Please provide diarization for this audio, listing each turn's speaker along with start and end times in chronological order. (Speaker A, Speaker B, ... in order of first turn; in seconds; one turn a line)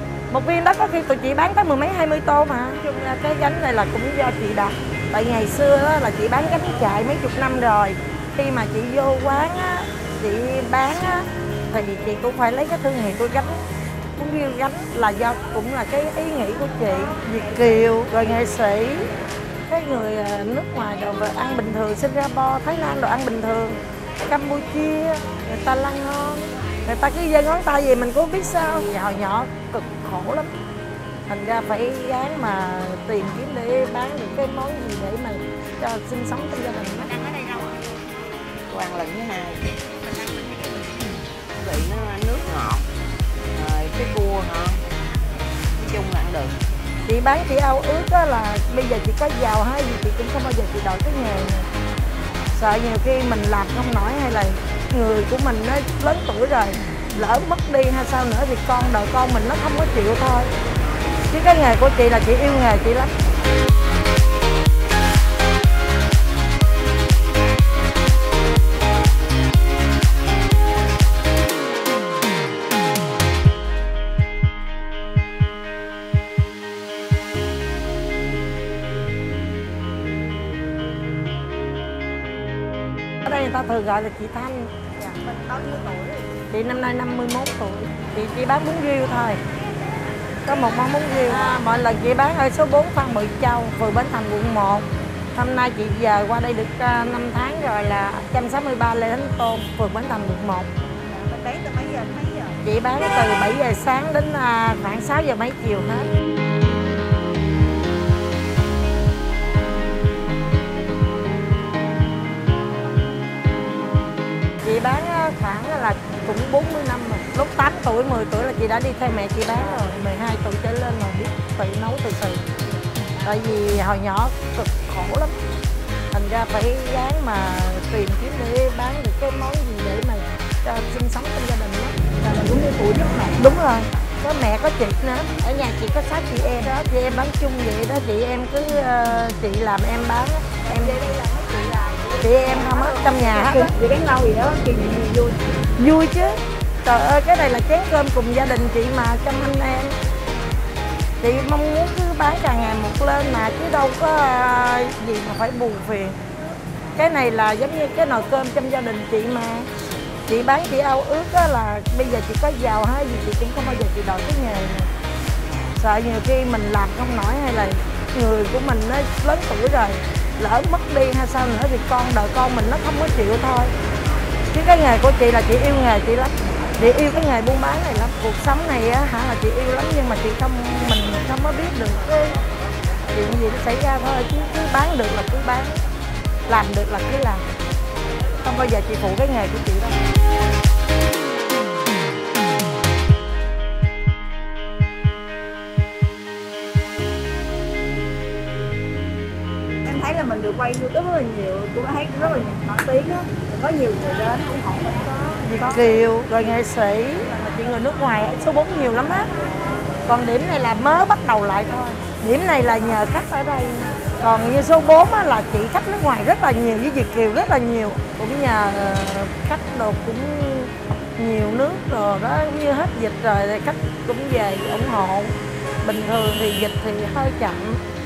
Speaker A: 0.3-13.7
Speaker A: 14.2-19.1
Speaker A: 19.7-30.5
Speaker A: 31.3-37.1
Speaker B: 37.2-37.6
Speaker C: 38.7-39.7
Speaker B: 40.0-41.0
Speaker C: 41.6-42.9
Speaker C: 43.5-44.8
Speaker C: 45.8-46.5
Speaker A: 47.1-51.7
Speaker A: 52.5-60.5
Speaker A: 61.3-63.1
Speaker A: 83.2-84.7
Speaker B: 85.0-86.3
Speaker A: 86.5-89.4
Speaker A: 90.5-100.7
Speaker B: 101.1-102.6
Speaker A: 102.6-106.1
Speaker A: 114.6-122.5
Speaker A: 123.2-125.3
Speaker A: 126.1-132.0
Speaker B: 132.2-133.6
Speaker A: 133.4-141.0
Speaker B: 140.7-145.4
Speaker A: 142.2-143.7
Speaker A: 145.8-149.9
Speaker A: 151.2-156.2
Speaker A: 157.0-159.7
Speaker A: 160.3-164.9
Speaker A: 165.8-173.7
Speaker A: 174.5-182.4
Speaker A: 183.1-185.8
Speaker A: 186.5-187.4
Speaker A: 188.4-190.0
Speaker B: 199.8-205.8
Speaker A: 205.4-209.3
Speaker A: 210.1-227.8